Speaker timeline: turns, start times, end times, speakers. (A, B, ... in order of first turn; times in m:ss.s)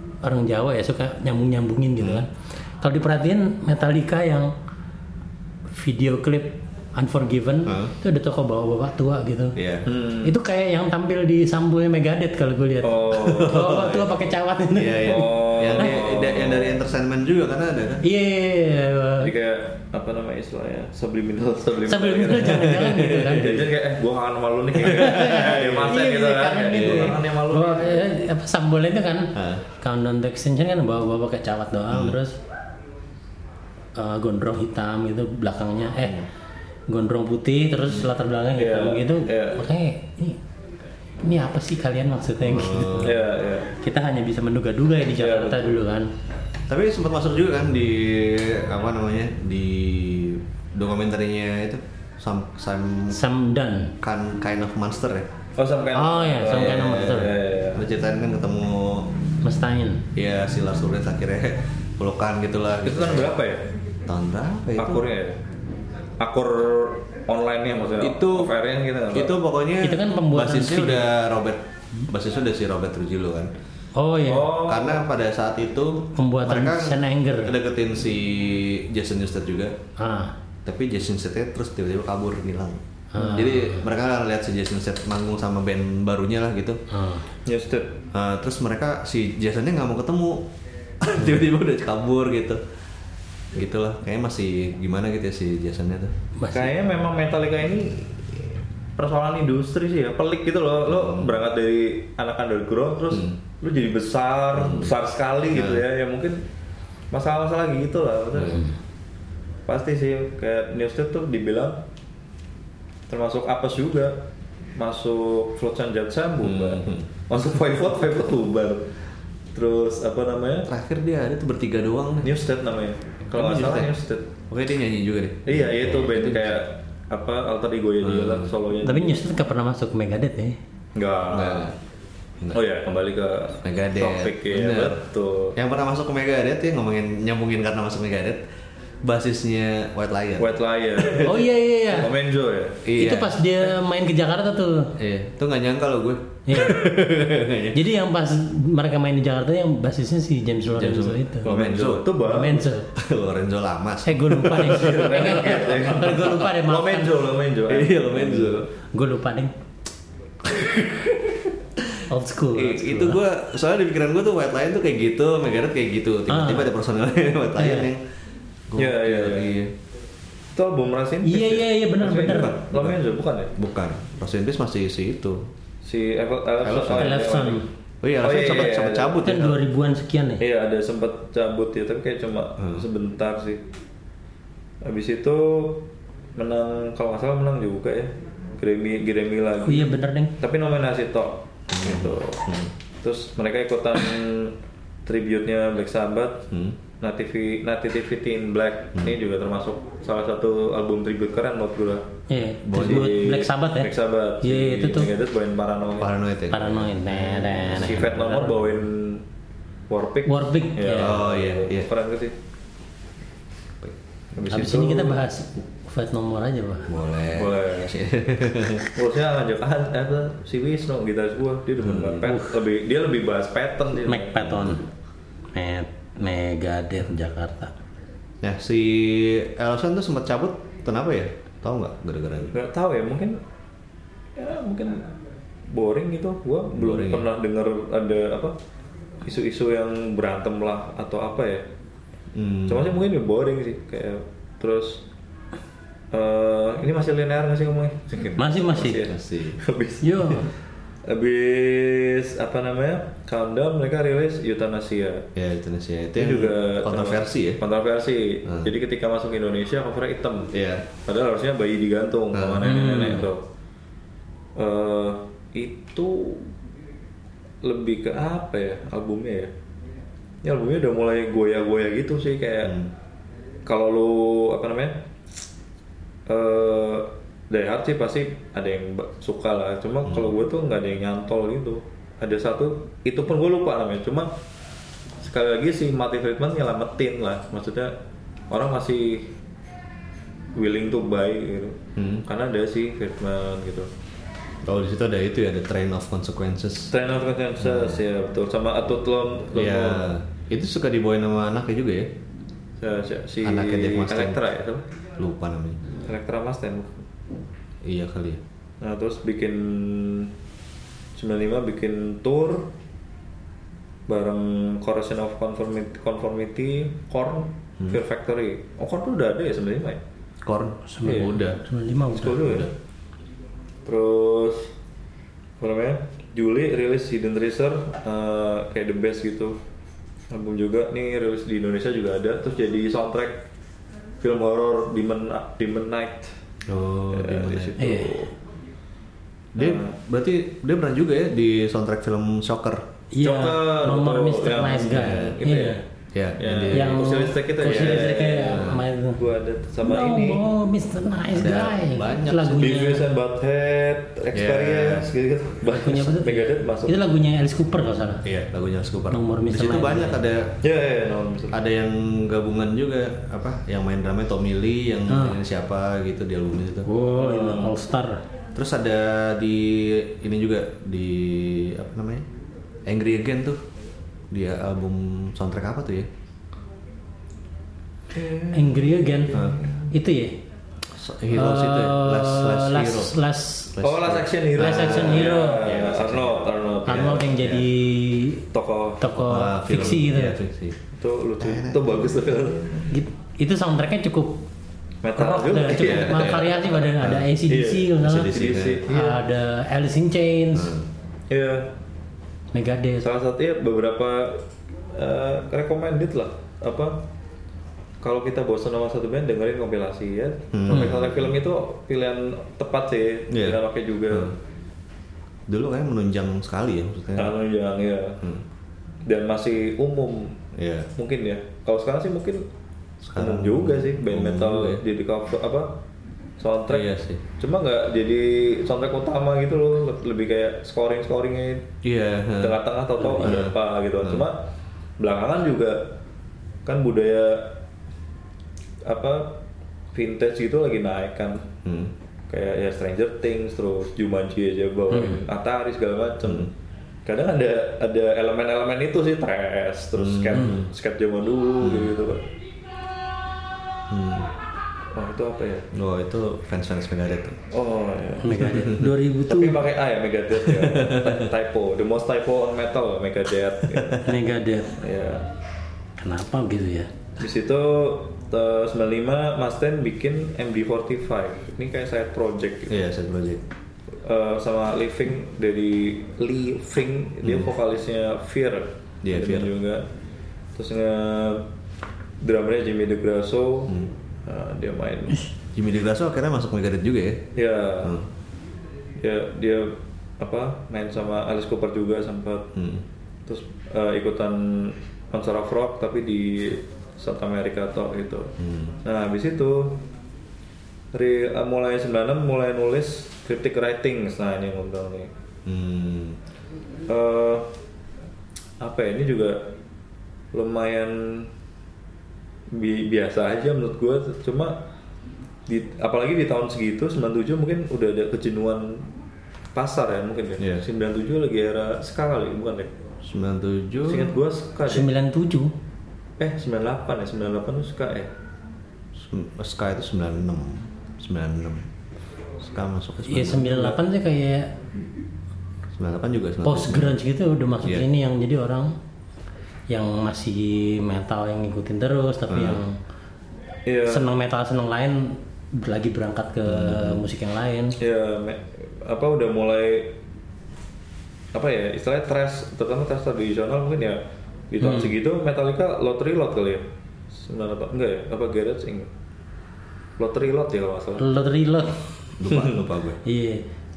0:00.2-0:02.3 A
0:02.0-0:02.2 B
0:02.8-0:04.5 A
0:05.7-0:09.6 A
0:07.6-0:07.9 B
0:09.6-0:09.8 B
0:09.8-0:10.4 C
0:10.2-0:15.9 A
0:12.8-0:13.6 C
0:13.2-0:14.1 B
0:14.7-0:18.0 B
0:15.0-0:16.8 C
0:18.0-0:19.3 A
0:19.2-0:22.7 C
0:21.9-0:23.5 A
0:22.4-0:23.7 B
0:23.3-0:28.1 C
0:24.8-0:26.0 B
0:24.9-0:32.4 A
0:26.7-0:27.2 B
0:29.3-0:29.6 B
0:31.9-0:32.2 B
0:34.0-0:36.2 A
0:36.9-0:40.4 A
0:38.6-0:39.6 C
0:41.2-0:43.2 A
0:42.4-0:43.2 B
0:43.0-0:43.7 C
0:43.7-0:46.1 A
0:45.2-0:45.8 C
0:46.7-0:53.2 B
0:53.1-0:53.9 A
0:54.0-0:55.3 B
0:55.6-0:57.8 C
0:55.9-0:57.3 A
0:56.5-0:59.1 B
0:59.4-1:00.0 A
1:00.1-1:03.3 B
1:02.8-1:03.7 C
1:04.1-1:05.0 B
1:04.8-1:05.4 C
1:06.2-1:09.4 C
1:08.0-1:08.5 B
1:09.1-1:13.5 B
1:09.8-1:11.0 A
1:14.0-1:14.5 A
1:14.2-1:15.0 C
1:14.6-1:19.7 B
1:16.2-1:17.5 A
1:20.0-1:20.3 A
1:20.6-1:26.8 B
1:23.1-1:23.9 A
1:26.9-1:27.3 A
1:27.4-1:28.0 C
1:28.1-1:30.5 B
1:31.0-1:32.6 B
1:33.5-1:36.1 B
1:36.4-1:36.7 A
1:36.5-1:46.4 C
1:40.9-1:41.3 B
1:44.6-1:44.9 B
1:45.5-1:45.8 B
1:47.1-1:48.7 C
1:49.7-1:51.8 C
1:53.1-1:54.2 C
1:54.8-1:58.9 C
1:56.4-1:57.1 B
1:59.5-2:00.7 C
2:00.6-2:02.4 B
2:02.2-2:04.3 C
2:03.3-2:03.9 B
2:04.5-2:06.6 B
2:05.4-2:09.2 C
2:08.0-2:08.5 B
2:08.8-2:10.6 A
2:10.9-2:11.7 C
2:11.3-2:11.8 B
2:12.5-2:15.6 C
2:13.6-2:15.0 B
2:15.5-2:18.4 B
2:19.0-2:21.4 B
2:20.4-2:22.8 C
2:21.2-2:22.1 A
2:22.8-2:23.4 B
2:23.0-2:24.9 A
2:25.0-2:27.8 B
2:26.5-2:26.9 A
2:27.7-2:31.5 A
2:30.7-2:32.1 B
2:31.4-2:32.6 C
2:32.2-2:32.9 A
2:32.9-2:35.3 B
2:34.0-2:37.1 A
2:34.6-2:38.6 C
2:37.7-2:38.7 B
2:38.9-2:39.5 A
2:40.4-2:41.8 B
2:42.1-2:43.2 A
2:42.5-2:48.0 B
2:46.3-2:46.7 A
2:47.6-2:47.9 A
2:48.7-2:49.7 B
2:48.8-2:49.5 C
2:50.5-2:53.5 C
2:51.2-2:52.5 A
2:52.2-2:53.0 B
2:53.5-2:55.4 B
2:55.8-2:57.7 C
2:56.6-2:57.2 B
2:57.0-2:57.6 A
2:58.0-2:59.6 B
2:58.2-2:59.2 C
2:59.2-3:00.4 A
3:00.4-3:03.6 C
3:02.6-3:02.8 B
3:04.8-3:12.4 C
3:09.6-3:10.3 A
3:11.7-3:12.7 B
3:13.0-3:14.5 C
3:15.0-3:16.4 C
3:16.5-3:16.8 B
3:17.0-3:22.1 C
3:22.3-3:25.1 A
3:22.6-3:23.2 B
3:22.7-3:26.1 C
3:26.0-3:28.1 B
3:26.5-3:28.6 A
3:27.6-3:29.2 C
3:29.9-3:32.3 C
3:30.2-3:31.2 A
3:31.0-3:31.9 B
3:34.3-3:35.2 C
3:34.5-3:36.9 A
3:36.9-3:38.9 B
3:37.3-3:37.9 C
3:38.9-3:44.4 C
3:41.8-3:42.2 B
3:42.2-3:42.5 A
3:44.0-3:44.8 A
3:44.4-3:44.8 B
3:45.5-3:47.7 A
3:48.4-3:52.6 B
3:52.5-3:53.4 C
3:54.4-3:55.1 C
3:55.7-3:58.5 C
3:56.7-3:57.3 B
3:59.2-4:01.6 C
4:02.3-4:03.0 B
4:02.7-4:05.0 C
4:06.1-4:10.5 C
4:08.4-4:09.0 A
4:08.9-4:09.6 B
4:10.0-4:10.5 A
4:11.0-4:15.2 C
4:15.3-4:17.6 B
4:16.2-4:23.4 C
4:20.5-4:20.9 B
4:22.3-4:23.2 B
4:22.6-4:23.2 A
4:24.6-4:26.5 C
4:27.6-4:29.5 C
4:30.4-4:32.8 C
4:32.6-4:32.9 B
4:33.6-4:35.0 C
4:36.3-4:44.3 C
4:45.2-4:47.9 C
4:48.5-4:49.3 C
4:50.6-4:53.9 C
4:52.0-4:52.2 B
4:54.6-4:56.9 B
4:56.9-5:00.1 C
4:57.6-4:58.0 B
4:59.5-5:02.1 B
5:02.8-5:04.8 C
5:03.4-5:04.4 B
5:05.2-5:05.8 B
5:06.0-5:07.0 C
5:07.8-5:08.4 B
5:08.8-5:10.3 C
5:11.2-5:12.7 C
5:14.1-5:20.0 C
5:20.4-5:21.6 B
5:20.9-5:22.4 A
5:21.0-5:21.4 C
5:22.1-5:22.7 C
5:22.4-5:22.7 B
5:23.8-5:24.7 C
5:25.6-5:29.6 C
5:30.3-5:33.4 C
5:34.2-5:36.3 C
5:36.7-5:37.8 B
5:37.1-5:38.3 C
5:37.8-5:38.3 A
5:39.5-5:42.8 B
5:39.6-5:40.0 C
5:43.1-5:45.8 A
5:43.2-5:45.8 C
5:44.9-5:45.4 B
5:46.1-5:47.1 B
5:46.4-5:50.4 C
5:46.7-5:49.2 A
5:47.7-5:48.8 B
5:49.8-5:53.1 A
5:51.3-5:52.9 B
5:52.6-5:57.1 C
5:54.3-5:55.1 B
5:55.7-5:58.2 A
5:58.2-6:00.6 B
5:59.1-6:00.2 A
6:00.6-6:01.6 C
6:01.5-6:06.9 B
6:05.1-6:05.4 A
6:06.8-6:08.2 A
6:07.2-6:07.7 C
6:08.5-6:12.2 B
6:12.8-6:13.6 B
6:14.3-6:16.1 B
6:18.1-6:19.9 C
6:18.5-6:19.4 A
6:19.3-6:19.6 B
6:19.9-6:20.4 A
6:20.9-6:23.2 B
6:21.3-6:23.8 A
6:23.7-6:27.6 B
6:23.8-6:27.5 C
6:24.6-6:25.6 A
6:26.8-6:28.4 A
6:28.5-6:29.1 C
6:29.0-6:30.4 A
6:29.1-6:30.8 B
6:30.9-6:32.9 C
6:31.4-6:32.6 B
6:32.9-6:34.4 A
6:35.0-6:36.7 C
6:35.2-6:40.7 A
6:35.7-6:37.3 B
6:37.5-6:39.2 C
6:38.0-6:38.9 B
6:40.5-6:40.9 B
6:41.3-6:41.7 C
6:42.5-6:43.1 A
6:43.0-6:47.0 C
6:48.0-6:54.3 C
6:50.5-6:51.3 B
6:53.3-6:54.4 B
6:55.5-6:57.3 B
6:57.2-6:58.2 C
6:59.0-7:00.4 C
7:00.5-7:00.9 B
7:01.0-7:02.4 C
7:03.0-7:04.8 B
7:03.2-7:05.7 C
7:06.4-7:06.9 C
7:06.7-7:07.2 B
7:07.4-7:11.7 C
7:11.8-7:12.6 B
7:12.4-7:14.4 C
7:13.0-7:13.3 A
7:13.2-7:14.2 B
7:15.0-7:15.9 C
7:16.6-7:17.5 C
7:18.8-7:19.4 C
7:19.9-7:21.5 C
7:21.6-7:21.9 B
7:22.3-7:26.5 C
7:24.9-7:25.2 A
7:26.2-7:26.5 B
7:27.0-7:32.2 C
7:30.0-7:30.7 B
7:31.6-7:32.0 B
7:33.9-7:34.3 B
7:34.9-7:35.7 C
7:35.7-7:37.4 B
7:37.5-7:38.5 C
7:38.2-7:39.6 A
7:38.4-7:38.9 B
7:39.2-7:44.1 C
7:40.4-7:41.3 B
7:44.0-7:44.8 A
7:44.7-7:45.3 C
7:46.0-7:46.9 A
7:47.2-7:52.8 C
7:52.7-7:53.4 B
7:54.0-7:59.8 C
7:57.2-7:57.5 B
7:59.0-7:59.5 B
8:00.6-8:01.4 C
8:02.2-8:03.7 C
8:04.2-8:05.3 C
8:05.5-8:07.2 B
8:07.4-8:07.9 C
8:07.8-8:08.1 B
8:09.0-8:12.5 C
8:12.5-8:12.8 B
8:13.2-8:18.3 C
8:18.4-8:18.8 B
8:18.8-8:19.8 C
8:20.9-8:25.1 C
8:25.4-8:26.2 B
8:26.9-8:27.5 C
8:28.6-8:29.4 C
8:30.3-8:31.3 C
8:32.5-8:34.6 C
8:35.5-8:38.9 C
8:39.5-8:42.7 C
8:43.0-8:44.1 B
8:43.8-8:44.9 C
8:44.6-8:45.5 A
8:46.2-8:48.1 C
8:48.9-8:51.7 B
8:52.4-8:53.8 B
8:53.1-8:54.5 A
8:55.7-8:57.0 B
8:56.4-8:58.7 A
8:59.7-9:02.8 A
9:02.3-9:02.6 B
9:03.6-9:04.1 C
9:03.8-9:07.8 A
9:06.4-9:07.0 B
9:07.8-9:10.0 C
9:11.3-9:18.9 C
9:14.6-9:14.9 A
9:20.0-9:21.1 C
9:21.0-9:21.8 A
9:22.2-9:23.0 B
9:22.2-9:22.7 C
9:23.0-9:23.4 A